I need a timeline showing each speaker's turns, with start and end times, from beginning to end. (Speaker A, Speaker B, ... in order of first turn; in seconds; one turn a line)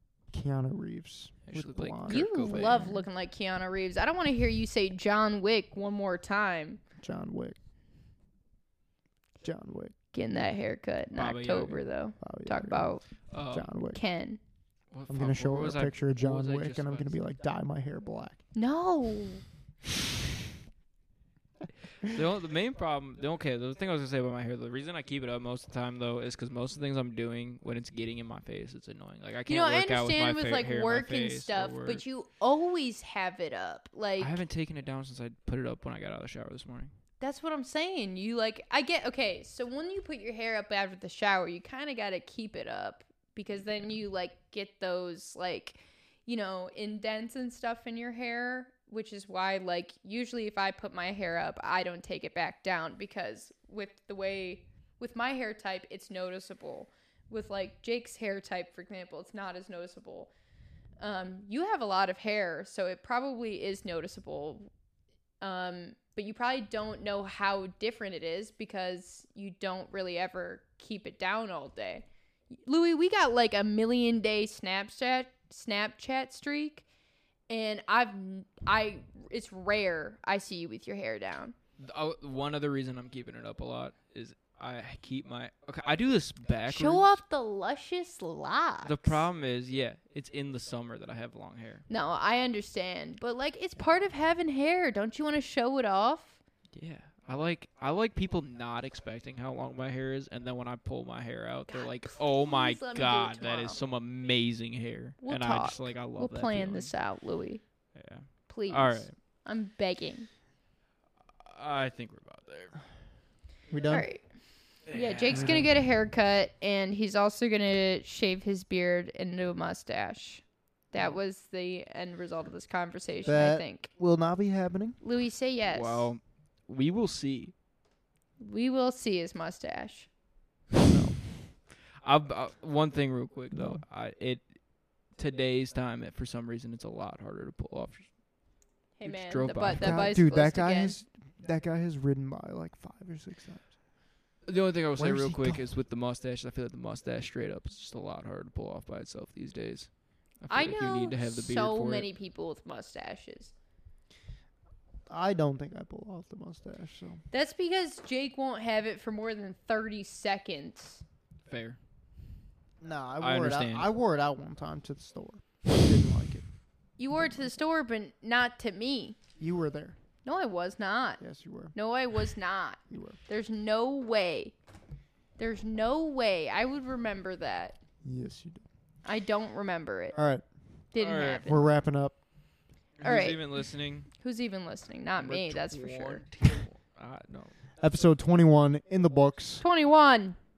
Speaker A: 0.3-3.0
Speaker B: 1.5-2.9
Speaker C: 2.1-6.8
Speaker A: 7.0-7.6
Speaker A: 9.4-9.9
Speaker C: 10.1-13.1
Speaker B: 11.1-11.8
Speaker A: 12.2-12.9
Speaker B: 13.3-13.7
Speaker A: 13.5-14.0
Speaker C: 13.9-14.4
Speaker B: 14.9-17.2
Speaker A: 15.1-18.4
Speaker C: 18.5-19.4
Speaker B: 22.0-32.0
Speaker C: 29.5-34.4
Speaker B: 34.2-36.9
Speaker C: 37.2-60.3
Speaker C: 61.0-64.7
Speaker C: 65.4-76.9
Speaker C: 77.5-81.6
Speaker B: 81.8-87.1
Speaker C: 86.7-89.2
Speaker B: 88.8-91.8
Speaker C: 91.9-96.4
Speaker B: 96.8-107.0
Speaker C: 101.7-103.8
Speaker C: 105.2-107.6
Speaker B: 108.0-109.1
Speaker C: 108.5-110.3
Speaker B: 111.4-112.8
Speaker A: 113.7-114.1
Speaker C: 113.9-114.2
Speaker B: 114.9-115.6
Speaker C: 114.9-123.9
Speaker A: 115.3-115.7
Speaker A: 123.2-125.0
Speaker C: 125.0-126.1
Speaker B: 125.6-127.5
Speaker C: 128.4-130.1
Speaker A: 130.8-131.2
Speaker B: 132.0-138.1
Speaker A: 133.5-133.8
Speaker C: 139.0-141.0
Speaker B: 139.0-140.1
Speaker A: 139.8-143.8
Speaker B: 144.5-152.1
Speaker A: 145.0-145.7
Speaker C: 150.5-153.5
Speaker A: 155.1-157.2
Speaker C: 157.3-161.0
Speaker B: 161.5-161.8
Speaker A: 162.8-166.4
Speaker B: 163.2-163.8
Speaker C: 167.0-169.2
Speaker A: 167.1-167.5
Speaker A: 169.4-170.0
Speaker C: 170.2-171.2
Speaker A: 171.2-171.7
Speaker C: 171.7-174.6
Speaker A: 172.9-173.2
Speaker C: 175.4-177.8
Speaker A: 178.0-178.6
Speaker C: 179.1-180.2
Speaker A: 180.1-180.5
Speaker C: 180.9-181.6
Speaker B: 181.0-181.7
Speaker A: 181.5-182.2
Speaker B: 183.0-184.1
Speaker C: 183.0-183.6
Speaker C: 184.1-186.3
Speaker B: 185.2-187.6
Speaker A: 187.8-189.6
Speaker C: 189.6-190.4